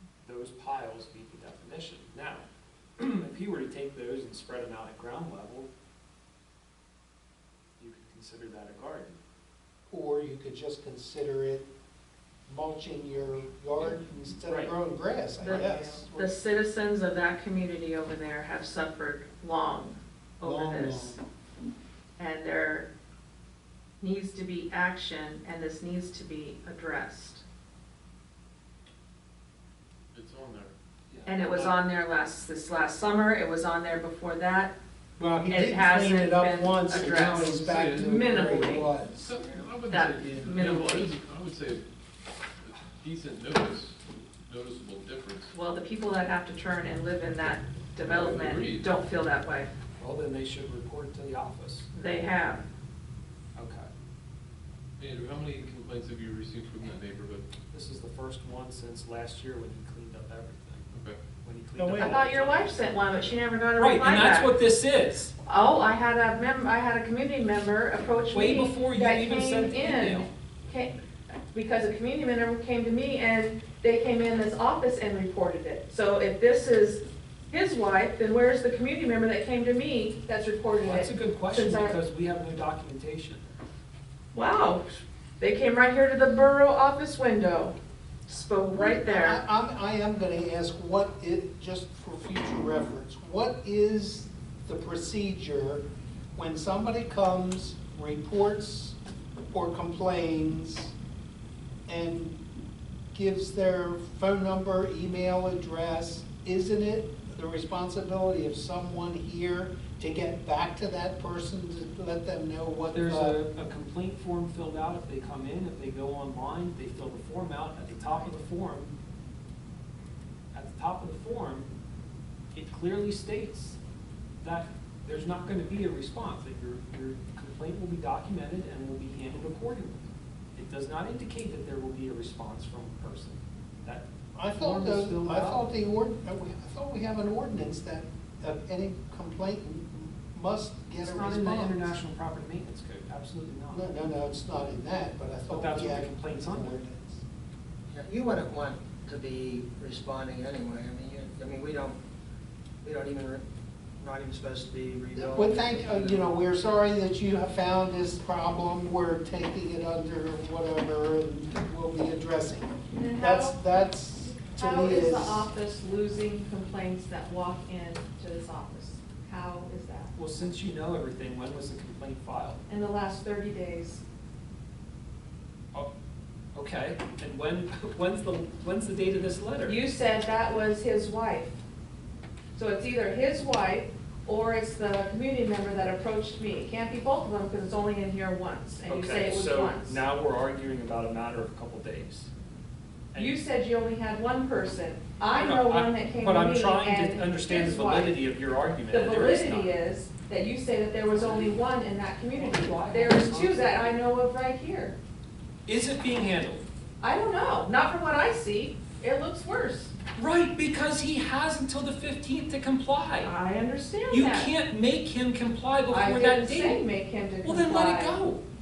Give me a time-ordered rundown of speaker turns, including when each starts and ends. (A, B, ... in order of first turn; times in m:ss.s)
0:00.2-0:02.4 A
0:03.0-0:05.7 A
0:07.8-0:09.2 A
0:09.9-0:11.7 B
0:12.5-0:16.3 B
0:13.8-0:14.7 A
0:15.4-0:21.2 C
0:20.4-0:21.2 B
0:22.2-0:22.9 C
0:24.0-0:27.4 C
0:30.1-0:30.7 D
0:31.1-0:31.8 A
0:31.2-0:34.7 C
0:35.2-0:39.1 B
0:35.5-0:38.9 C
0:37.4-0:41.8 D
0:39.2-0:39.6 A
0:39.9-0:41.1 C
0:42.6-0:44.0 D
0:44.5-0:45.5 D
0:45.5-0:49.7 C
0:48.0-0:48.9 D
0:50.0-0:51.9 A
0:51.9-0:52.6 C
0:53.6-0:53.9 A
0:55.0-0:57.4 D
0:57.7-1:00.9 A
1:00.9-1:01.2 D
1:01.4-1:05.3 A
1:01.8-1:02.2 B
1:01.9-1:04.5 C
1:05.4-1:11.0 C
1:08.3-1:10.3 A
1:11.5-1:22.0 C
1:20.8-1:23.4 A
1:24.3-1:27.8 C
1:28.3-1:29.4 C
1:28.7-1:39.0 B
1:39.5-1:40.9 B
1:41.9-1:42.4 B
1:43.1-1:53.4 B
1:52.9-1:58.9 A
2:00.5-2:01.7 A
2:02.5-2:03.8 A
2:04.4-2:15.7 A
2:14.3-2:21.9 B
2:21.0-2:23.8 A
2:23.7-2:27.2 B
2:25.5-2:26.8 A
2:27.9-2:32.0 E
2:32.8-2:33.5 E
2:34.0-2:36.3 E
2:35.1-2:45.5 B
2:42.9-2:50.1 C
2:50.2-2:52.6 A
2:52.7-2:54.0 C
2:56.5-2:59.8 A
2:59.7-3:01.6 C
3:02.5-3:10.0 C
3:08.9-3:12.3 A
3:13.2-3:18.2 C
3:15.3-3:19.7 A
3:18.9-3:25.0 C
3:21.1-3:21.7 A
3:22.3-3:23.9 A
3:25.7-3:26.7 A
3:27.0-3:29.9 C
3:30.2-3:33.3 A
3:33.2-3:34.5 C
3:34.1-3:36.8 A
3:35.9-3:38.2 C
3:37.4-3:38.4 A